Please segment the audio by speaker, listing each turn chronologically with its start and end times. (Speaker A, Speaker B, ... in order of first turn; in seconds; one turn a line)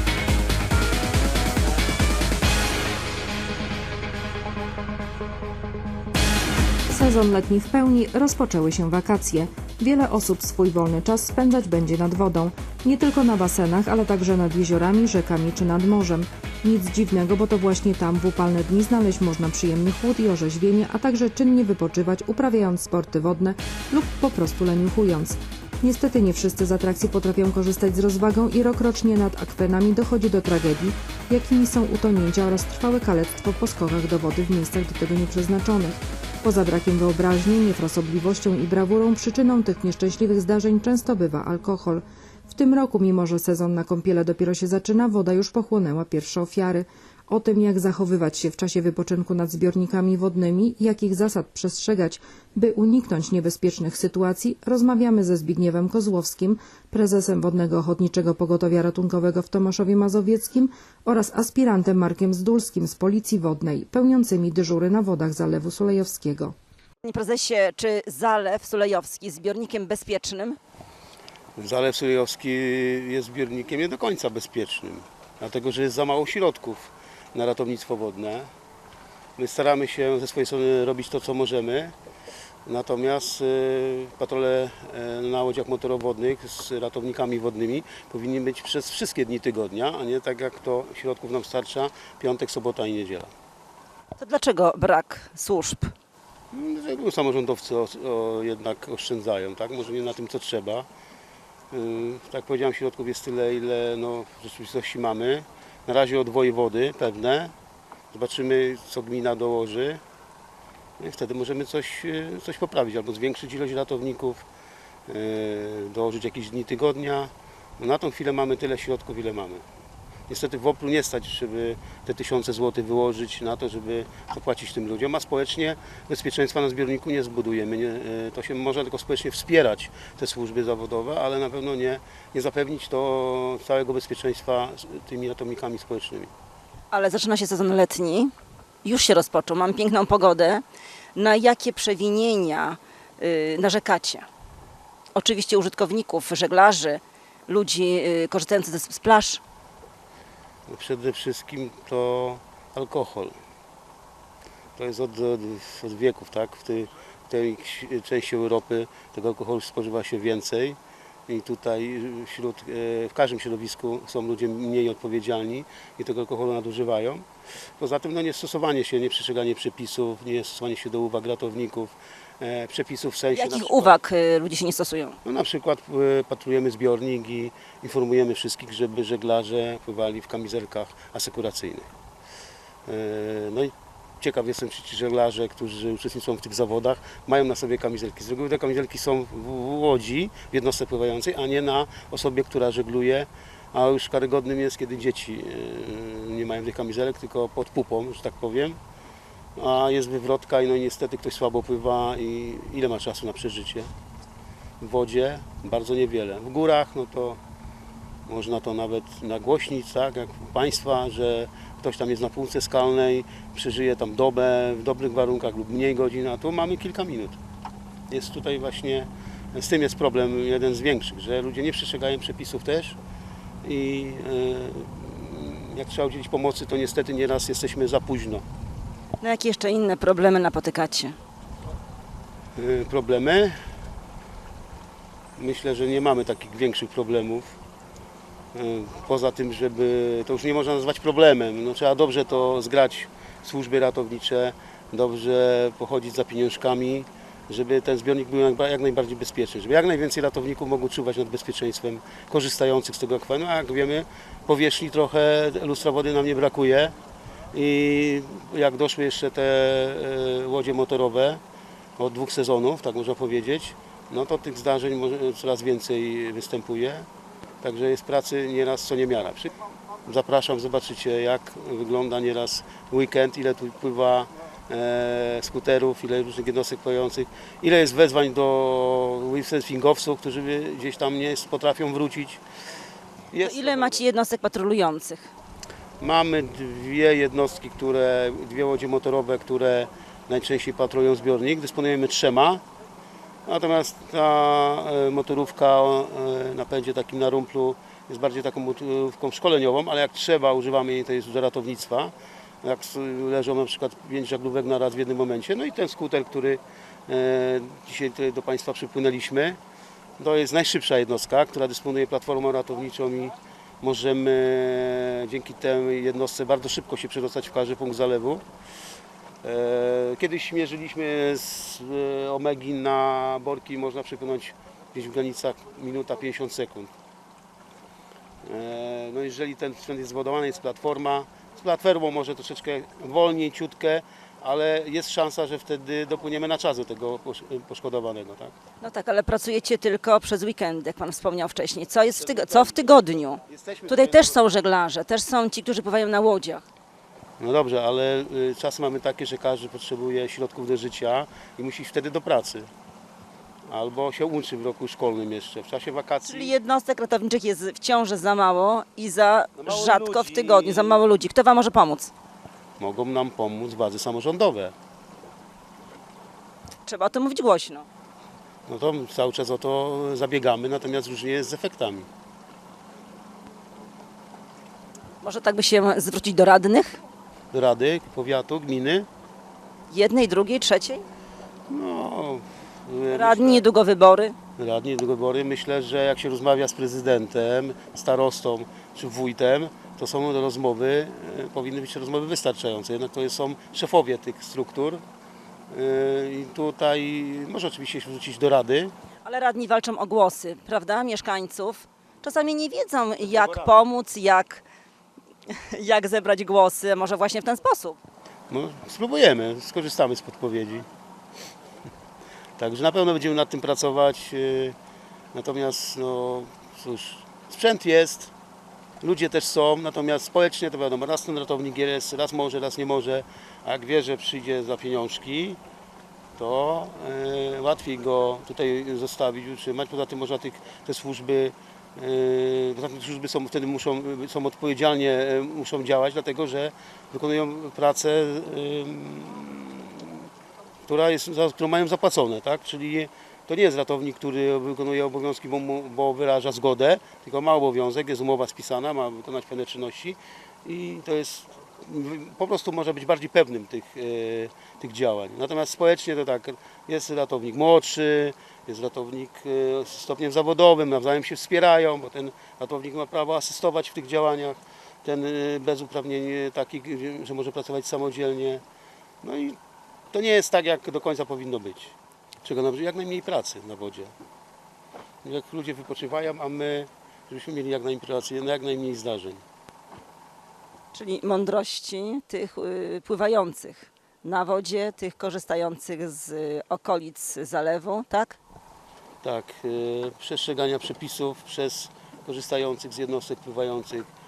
Speaker A: 6.9-66.5
Speaker B: 67.0-70.6
Speaker C: 71.5-78.5
Speaker C: 79.4-81.9
Speaker C: 82.7-93.3
Speaker B: 94.2-95.9
Speaker C: 96.5-100.9
Speaker C: 101.7-107.5
Speaker C: 108.1-110.0
Speaker C: 111.0-114.4
Speaker C: 115.1-119.6
Speaker C: 120.3-136.3
Speaker B: 136.9-138.3
Speaker B: 138.8-140.6
Speaker B: 141.1-144.2
Speaker B: 145.1-149.4
Speaker C: 150.7-153.3
Speaker C: 154.8-167.2
Speaker C: 167.8-173.9
Speaker B: 173.3-175.2
Speaker C: 175.2-181.9
Speaker C: 182.9-198.8
Speaker C: 199.6-203.9
Speaker C: 204.8-207.4
Speaker C: 208.2-217.4
Speaker C: 218.1-223.0
Speaker C: 223.6-228.4
Speaker B: 229.2-231.2
Speaker C: 232.6-233.6
Speaker C: 235.4-237.5
Speaker C: 238.5-256.9
Speaker C: 257.5-261.4
Speaker C: 262.0-267.1
Speaker C: 267.6-282.4
Speaker C: 283.3-284.0
Speaker B: 283.4-285.3
Speaker C: 286.0-292.6
Speaker C: 293.4-309.6
Speaker C: 310.2-318.4
Speaker C: 319.4-326.9
Speaker C: 328.4-338.6
Speaker B: 338.8-346.6
Speaker C: 342.2-342.9
Speaker C: 343.5-344.4
Speaker C: 347.4-352.7
Speaker C: 353.7-356.5
Speaker B: 356.2-362.1
Speaker C: 359.6-361.0
Speaker C: 362.8-364.7
Speaker B: 366.8-367.9
Speaker C: 368.7-372.1
Speaker B: 375.2-377.0
Speaker C: 377.5-379.1
Speaker B: 379.9-381.0
Speaker C: 381.7-383.7
Speaker B: 383.1-384.4
Speaker C: 384.6-395.0
Speaker C: 395.7-398.9
Speaker B: 399.2-404.6
Speaker C: 403.3-403.8
Speaker B: 405.5-408.0
Speaker C: 408.5-410.9
Speaker C: 412.6-414.7
Speaker C: 415.3-418.3
Speaker C: 419.0-425.6
Speaker C: 426.4-440.3
Speaker C: 440.8-468.6
Speaker C: 469.2-469.6
Speaker C: 470.1-474.1
Speaker C: 475.2-479.4
Speaker B: 480.9-488.4
Speaker C: 489.2-494.1